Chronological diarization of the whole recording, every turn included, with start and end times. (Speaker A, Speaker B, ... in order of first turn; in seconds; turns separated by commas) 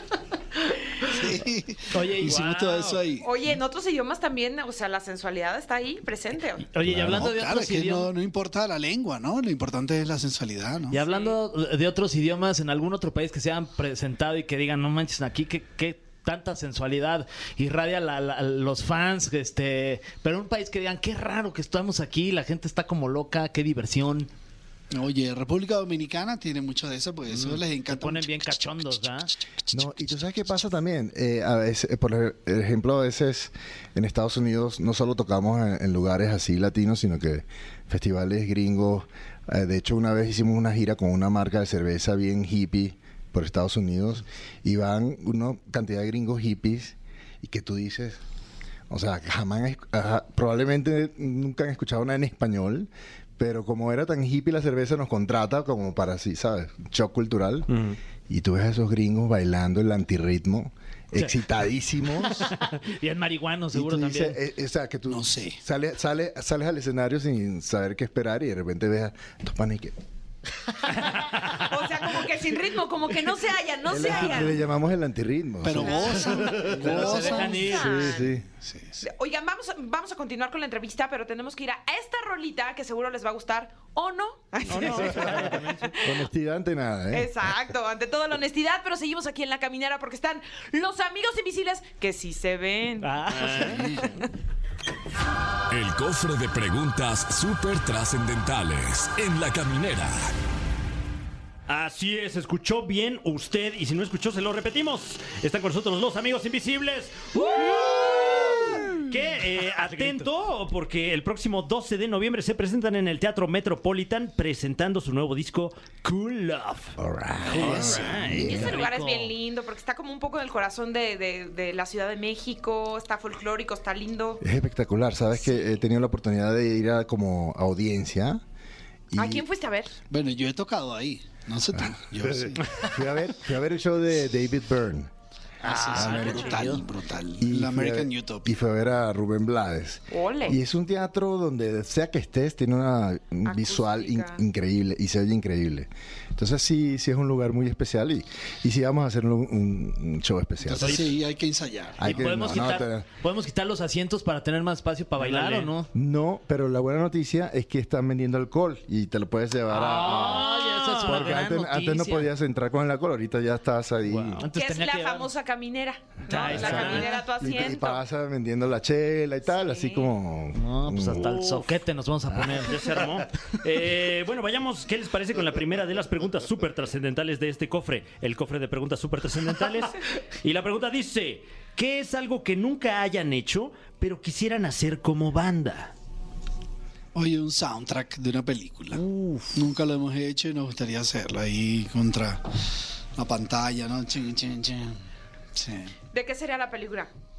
Speaker A: 1.1-3.3, Speaker B: 1.9-3.0, Speaker C: 2.3-2.9, Speaker D: 3.2-6.7, Speaker B: 6.7-8.1, Speaker E: 6.8-7.3, Speaker A: 6.9-11.0, Speaker B: 10.9-24.3, Speaker D: 11.1-11.3, Speaker A: 24.9-30.2, Speaker B: 27.4-29.3, Speaker E: 29.7-48.2, Speaker E: 48.9-57.7, Speaker C: 57.7-58.0, Speaker E: 58.3-62.5, Speaker B: 62.2-64.4, Speaker E: 63.7-69.9, Speaker A: 65.1-65.6, Speaker D: 71.5-74.6, Speaker E: 73.9-78.4, Speaker A: 75.6-77.9, Speaker D: 75.8-78.3, Speaker B: 76.5-78.1, Speaker A: 78.5-79.0, Speaker D: 79.0-86.2, Speaker C: 84.7-85.8, Speaker B: 84.7-85.8, Speaker E: 86.0-87.3, Speaker D: 87.1-94.3, Speaker B: 93.0-93.7, Speaker C: 93.2-94.0, Speaker A: 93.5-94.2, Speaker F: 95.7-100.3, Speaker C: 101.7-117.0, Speaker D: 107.4-108.8, Speaker B: 109.8-110.2, Speaker E: 117.0-118.8, Speaker B: 117.5-119.3, Speaker C: 117.5-118.6, Speaker A: 117.7-117.9, Speaker D: 118.3-124.4, Speaker E: 124.4-128.4, Speaker E: 129.1-129.4, Speaker D: 129.2-129.9, Speaker A: 130.1-132.8, Speaker E: 131.8-135.1, Speaker B: 135.6-136.8, Speaker A: 135.6-138.5, Speaker E: 135.9-136.6, Speaker E: 137.4-151.1, Speaker D: 140.1-140.6, Speaker D: 143.4-144.4, Speaker A: 150.6-152.2, Speaker E: 152.0-153.1, Speaker B: 152.0-155.9, Speaker C: 155.2-155.7, Speaker E: 155.9-164.4, Speaker B: 159.7-162.3, Speaker C: 160.2-161.3, Speaker C: 164.1-164.4, Speaker B: 164.4-165.3, Speaker D: 164.5-168.0, Speaker B: 166.3-167.1, Speaker E: 166.5-171.3, Speaker C: 166.6-167.1, Speaker D: 169.5-170.1, Speaker B: 170.5-172.8, Speaker C: 171.2-171.8, Speaker C: 172.4-185.9, Speaker A: 187.1-189.0, Speaker C: 188.9-189.6, Speaker A: 189.5-192.4, Speaker A: 193.2-195.0, Speaker A: 195.5-195.9, Speaker D: 196.1-197.1